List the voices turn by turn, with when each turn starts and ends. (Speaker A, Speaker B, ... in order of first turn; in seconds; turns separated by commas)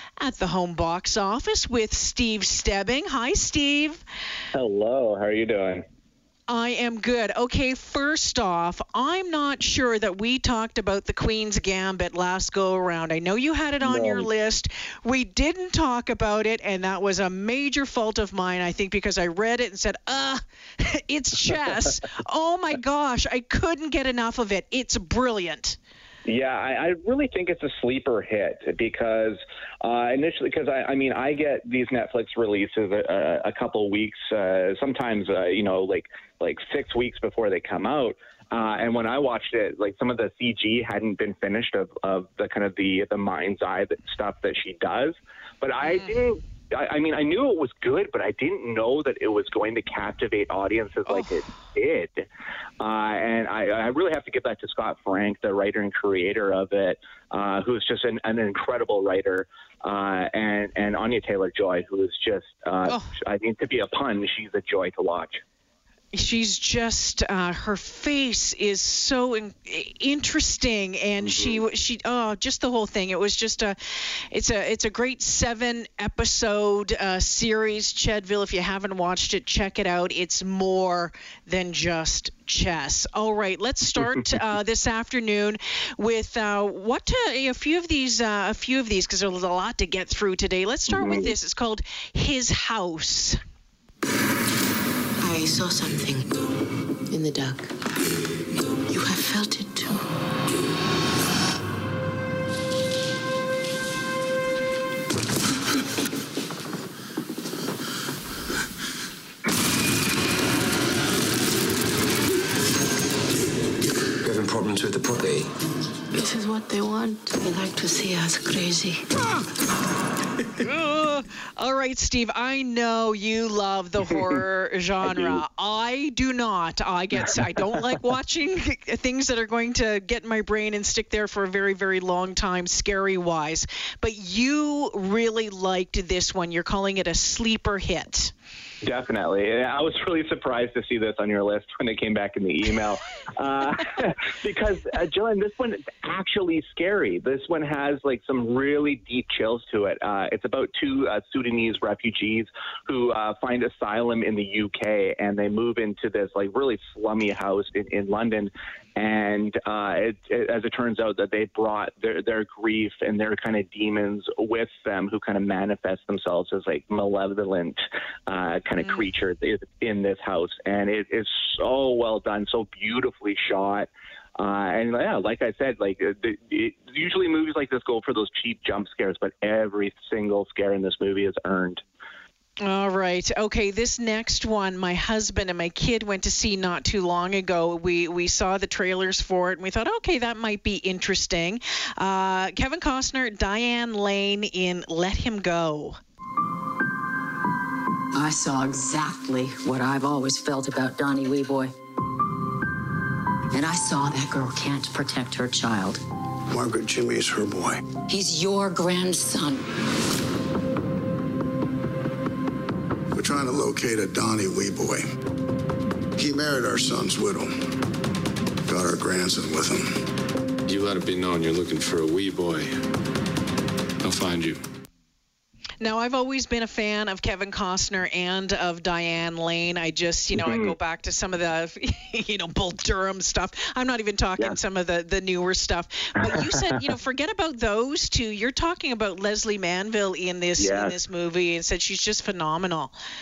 Speaker A: 0.2-4.0, Speaker B: 4.5-5.8, Speaker A: 6.5-25.8, Speaker B: 13.8-14.3, Speaker B: 26.3-52.3, Speaker B: 52.8-65.4, Speaker A: 66.1-73.8, Speaker B: 71.2-71.6, Speaker A: 74.3-93.4, Speaker B: 90.9-91.3, Speaker C: 98.9-100.0, Speaker C: 116.2-119.0, Speaker A: 120.6-138.3, Speaker B: 125.1-125.4, Speaker B: 138.8-181.8, Speaker A: 182.7-196.0, Speaker D: 198.1-201.7, Speaker D: 203.5-206.0, Speaker E: 206.5-207.8, Speaker D: 208.1-209.7, Speaker E: 213.2-215.1, Speaker E: 216.2-217.6, Speaker E: 218.7-219.9, Speaker F: 220.7-222.7, Speaker F: 224.0-224.6, Speaker A: 225.8-242.9, Speaker B: 230.3-230.8, Speaker B: 240.6-241.0